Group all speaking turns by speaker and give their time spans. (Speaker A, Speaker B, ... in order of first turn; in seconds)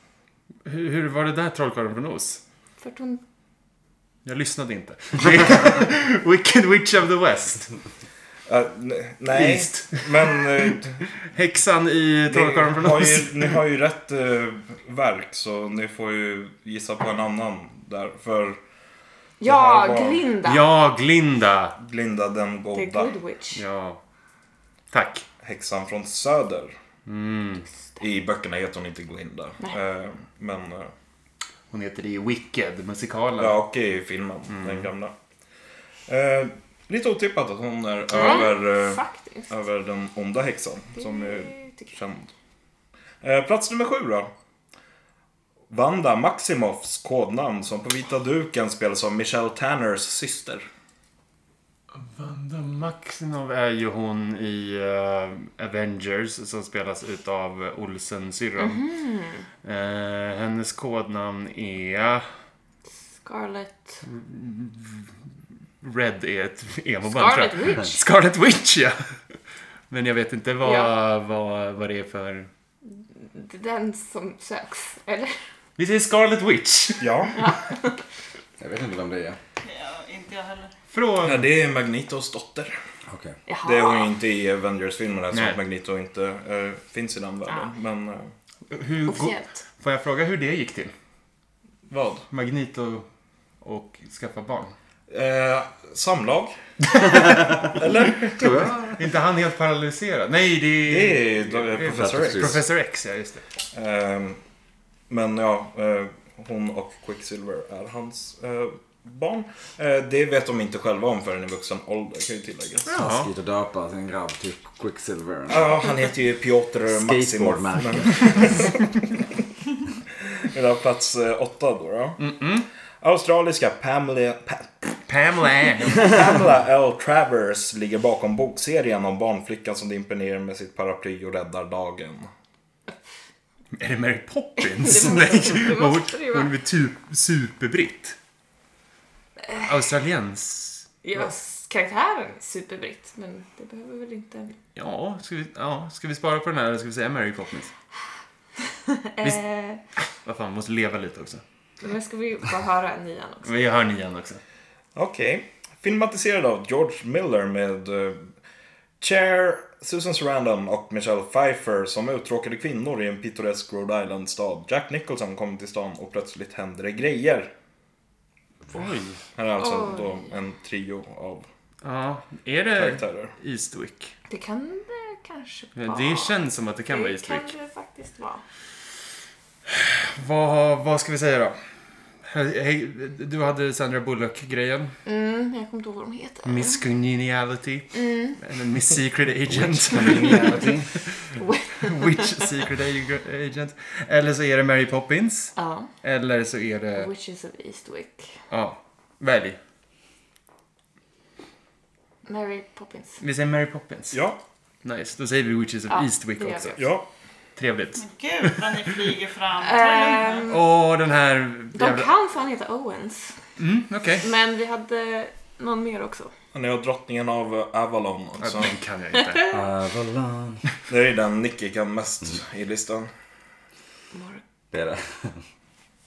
Speaker A: 0.7-2.4, 4.2-7.7, 9.3-13.6, 20.4-21.8, 23.5-24.0, 24.9-25.3, 27.1-27.6, 31.7-33.6, 34.5-34.9, 52.0-58.8, 59.6-62.3, 64.0-65.1, 65.8-69.4, 69.9-72.5, 75.8-77.5, 80.9-81.5, 85.3-85.6, 88.7-90.9, 92.3-93.1, 93.6-94.7, 98.9-103.5, 112.9-113.3, 122.2-122.7, 125.1-126.2, 133.8-138.2, 139.6-141.2, 144.8-147.7, 150.1-151.4, 153.4-154.4, 168.7-169.2, 171.8-174.2, 175.8-177.5, 179.7-181.6, 182.2-185.0, 186.4-197.1, 198.5-199.6, 203.2-204.2, 204.8-206.9, 207.6-208.9, 210.5-212.1, 213.6-214.3, 218.4-219.5
Speaker B: 2.8-3.2, 19.4-20.6, 22.7-23.6, 38.1-39.5, 41.0-41.9, 58.6-59.5, 63.2-64.0, 67.1-68.0, 70.6-70.9, 72.9-75.4, 77.3-78.0, 83.5-84.1, 89.1-89.6, 134.6-136.5, 141.0-144.6, 148.8-149.8, 151.8-153.5, 169.6-170.2, 174.3-178.4, 185.1-186.8, 187.9-188.4, 191.4-192.5, 195.6-195.9, 196.9-198.3, 202.3-203.2, 205.9-206.8, 209.6-210.6, 211.8-213.4, 214.2-216.3, 219.2-219.6, 224.1-224.4
Speaker C: 8.5-11.0, 12.3-18.6, 19.4-20.2, 21.8-23.1, 25.4-26.7, 28.0-30.9, 33.4-35.1, 36.1-42.3, 43.2-44.3, 45.7-50.6, 77.0-77.4, 81.2-82.7, 83.6-88.3, 91.9-92.3, 95.1-97.1, 97.8-98.7, 100.9-102.6, 103.7-104.4, 105.1-113.0, 115.5-118.9, 120.4-122.2, 123.0-125.0, 125.8-132.3, 154.9-158.3, 159.0-167.5, 169.4-171.5, 172.8-173.3, 204.1-204.4, 206.8-207.1, 216.5-218.7, 220.9-223.1
Speaker D: 78.6-79.4, 83.1-83.3, 97.3-97.7, 98.4-98.9, 102.0-102.6, 113.0-115.7, 116.9-118.6, 189.5-190.9, 219.5-220.7, 224.7-225.4
Speaker E: 79.6-80.7, 208.0-210.5